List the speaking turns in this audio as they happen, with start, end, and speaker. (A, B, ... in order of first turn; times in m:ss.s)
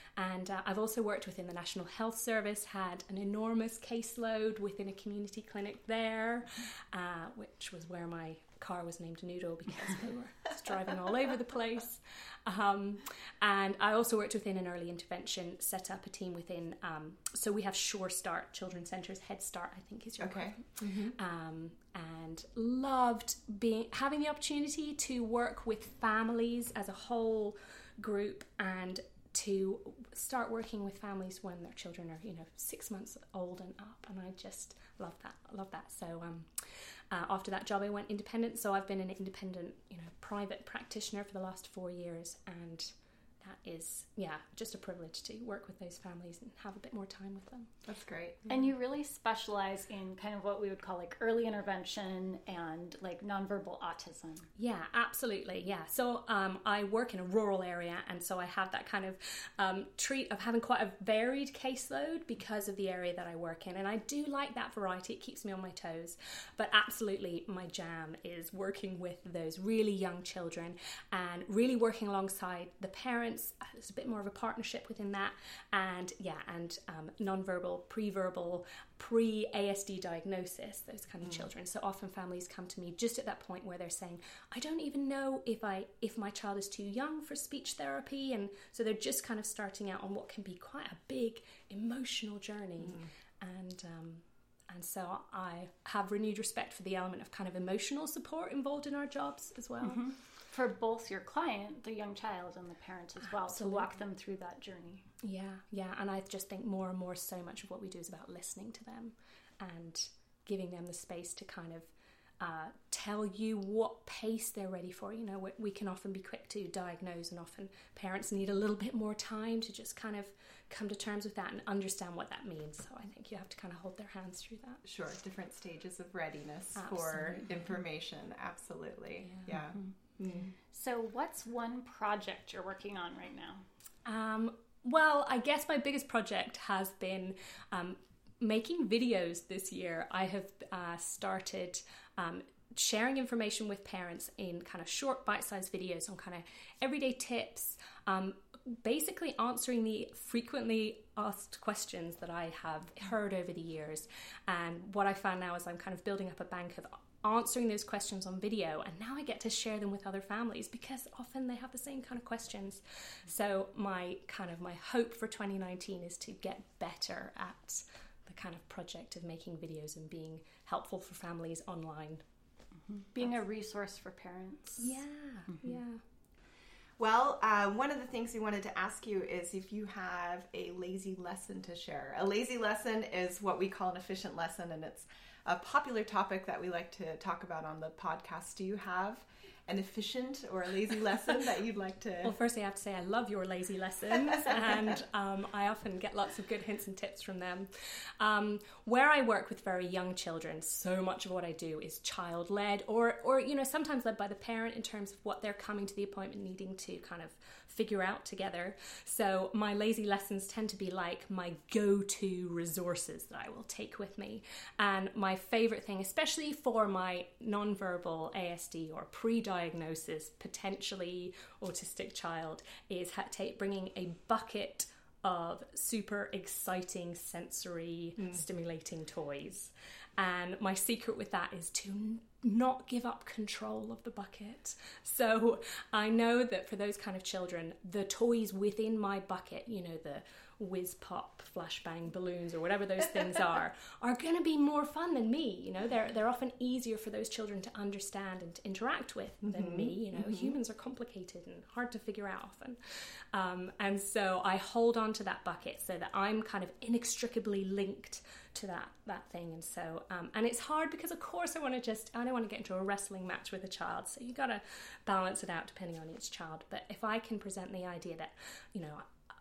0:00.2-0:47.7 A
0:20.2-0:21.2 B
0:47.8-0:48.4 B
0:48.5-0:54.5 C
0:54.6-1:40.0 A
1:39.8-1:45.1 C
1:43.4-1:43.9 A
1:45.2-1:51.9 A
1:52.4-2:04.8 A
2:04.8-2:10.6 B
2:06.8-2:07.5 A
2:09.2-2:09.6 A
2:10.7-2:13.6 C
2:14.1-2:52.2 A
2:52.9-2:54.9 C
2:54.8-2:56.0 A
2:57.0-3:12.3 B
3:12.2-3:17.7 A
3:18.2-4:12.8 A
4:13.3-4:29.0 A